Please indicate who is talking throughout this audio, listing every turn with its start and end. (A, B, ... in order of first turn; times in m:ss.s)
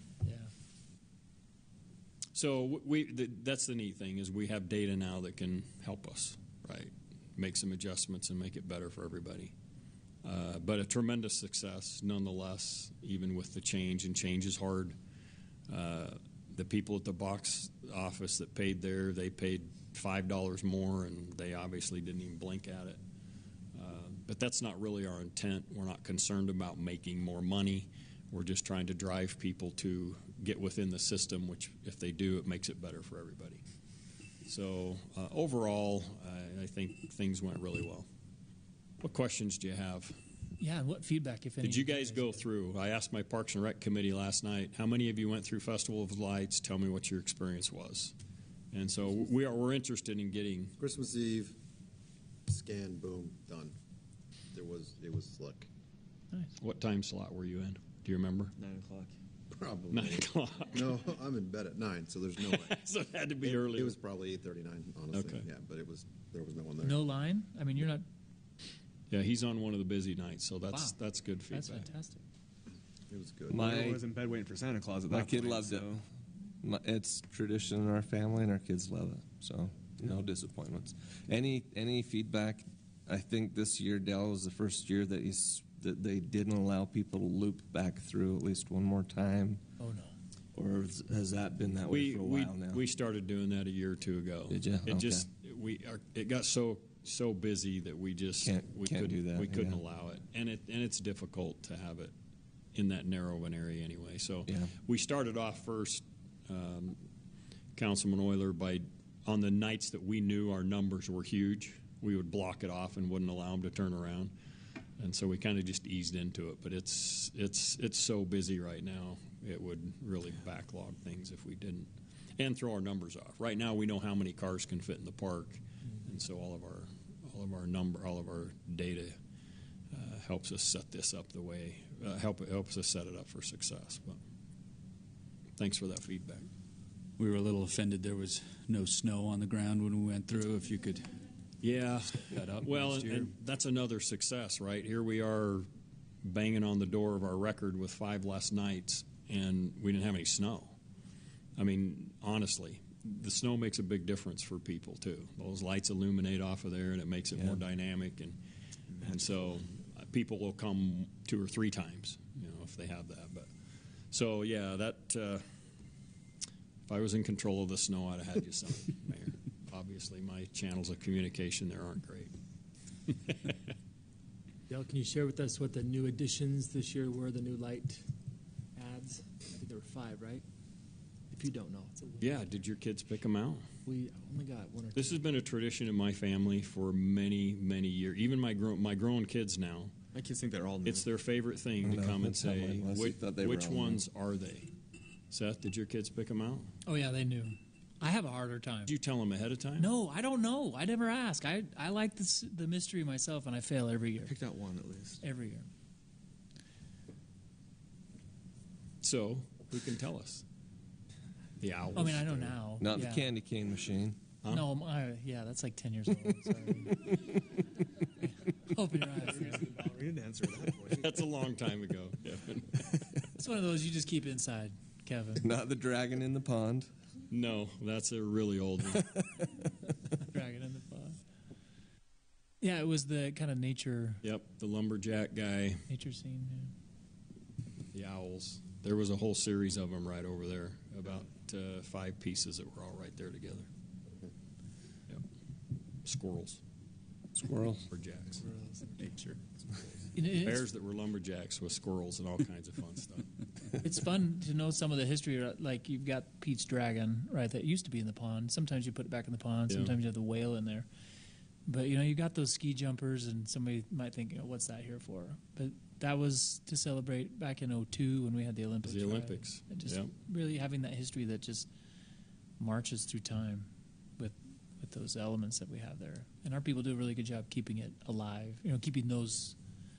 0:00.2-0:00.5 A
0:02.4-0:09.5 B
0:10.2-0:15.0 B
0:15.7-0:23.0 B
0:23.7-0:33.6 B
0:34.5-0:38.1 B
0:39.0-0:40.2 B
0:40.6-0:42.4 A
0:41.6-0:48.1 B
0:48.7-0:50.8 B
0:50.8-0:51.6 C
0:52.5-0:53.7 C
0:54.5-0:55.7 C
0:56.6-0:58.6 B
0:58.6-0:59.1 D
0:59.5-1:02.8 C
0:59.9-1:00.9 B
1:02.4-1:04.0 B
1:03.4-1:07.0 C
1:05.1-1:05.5 B
1:06.8-1:08.0 A
1:09.1-1:11.9 B
1:10.7-1:11.0 A
1:11.5-1:12.2 A
1:13.1-1:13.6 C
1:13.5-1:14.0 E
1:13.5-1:16.0 D
1:15.1-1:16.0 E
1:16.6-1:29.6 E
1:29.8-1:30.1 A
1:30.6-1:32.8 E
1:31.9-1:42.1 B
1:34.5-1:35.3 E
1:38.4-1:39.8 E
1:42.8-1:47.0 B
1:44.5-1:44.7 E
1:47.8-1:54.3 B
1:55.0-2:09.2 B
2:09.9-2:14.2 B
2:15.6-2:16.5 B
2:17.2-2:21.1 F
2:21.6-2:25.7 B
2:22.3-2:23.3 F
2:26.2-2:30.8 B
2:31.6-2:38.4 B
2:39.0-2:39.6 D
2:39.0-2:43.5 B
2:44.1-2:45.4 B
2:46.9-2:52.3 B
2:54.7-2:57.9 A
2:54.7-2:57.9 G
2:58.8-3:00.4 G
2:58.8-2:59.1 A
2:59.6-3:00.4 A
3:01.3-3:02.2 A
3:01.4-3:01.9 G
3:02.2-3:03.7 B
3:03.9-3:05.1 G
3:03.9-3:04.9 A
3:05.0-3:09.9 B
3:10.1-3:11.1 D
3:10.8-3:14.7 B
3:11.8-3:14.0 E
3:15.3-3:16.7 B
3:16.8-3:18.9 A
3:18.9-3:19.9 B
3:19.8-3:24.3 A
3:24.2-3:25.2 D
3:25.2-3:25.7 A
3:29.0-3:30.4 B
3:31.6-3:32.6 B
3:32.0-3:33.3 A
3:32.8-3:34.2 E
3:34.5-3:37.4 A
3:38.2-3:39.7 A
3:39.2-3:41.2 D
3:41.0-3:43.0 B
3:43.4-3:45.5 A
3:45.4-3:46.9 E
3:47.3-3:49.1 B
3:50.2-3:51.2 A
3:52.6-3:54.2 A
3:54.2-3:55.8 B
3:55.9-3:56.7 A
3:57.9-4:03.7 B
4:06.0-4:06.6 B
4:07.4-4:07.8 E
4:07.9-4:08.4 B
4:08.4-4:09.4 D
4:10.1-4:10.6 A
4:10.4-4:13.3 B
4:13.8-4:20.9 A
4:19.7-4:20.0 B
4:21.7-4:31.7 A
4:28.8-4:30.1 B
4:32.6-4:39.6 A